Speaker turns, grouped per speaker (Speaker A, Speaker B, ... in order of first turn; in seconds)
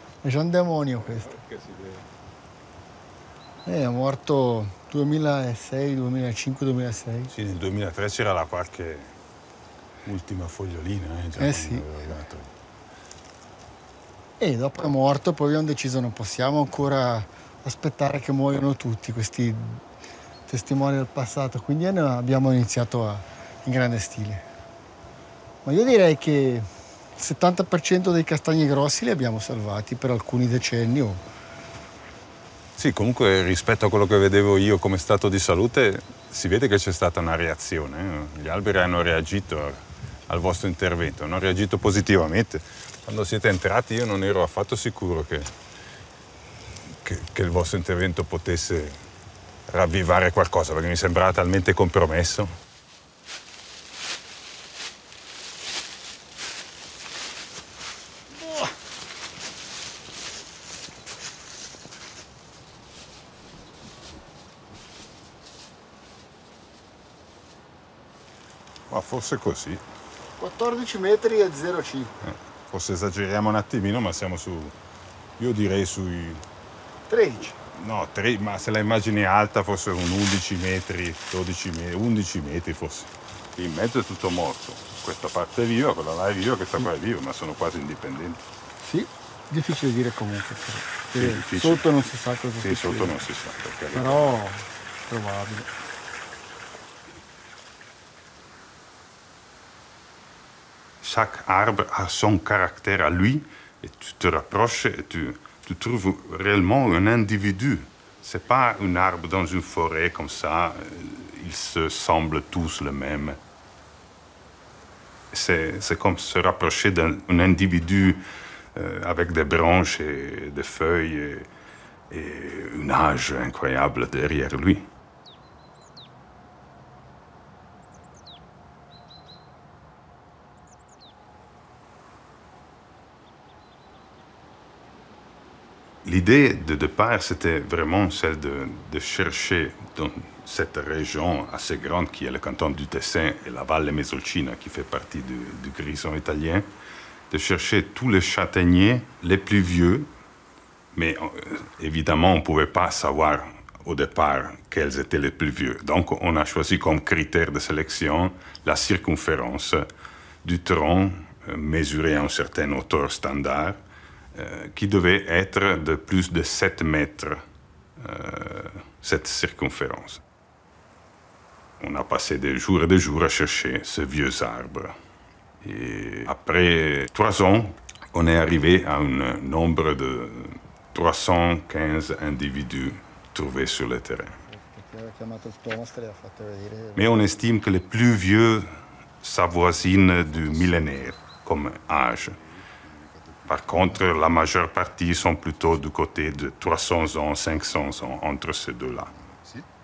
Speaker A: 0.2-1.4, 3.6-7.3, 11.4-11.9, 14.4-19.8, 20.5-24.4, 25.6-31.2, 70.4-72.1, 77.1-77.6, 88.8-93.2, 93.9-95.7, 184.5-187.1
Speaker B: 7.3-9.1, 10.1-12.5, 32.8-45.5, 47.0-49.0, 49.7-52.5, 58.4-58.7, 68.9-69.8, 72.2-74.8, 75.4-76.4, 77.7-88.4, 91.2-91.9, 92.6-94.3, 101.0-113.4, 115.3-118.2, 118.8-121.5, 122.1-124.9, 136.0-146.7, 147.3-150.1, 150.9-159.9, 160.4-163.8, 164.3-167.4, 168.0-170.2, 171.8-174.9, 175.6-184.4, 187.0-188.7, 189.2-192.4, 193.4-199.7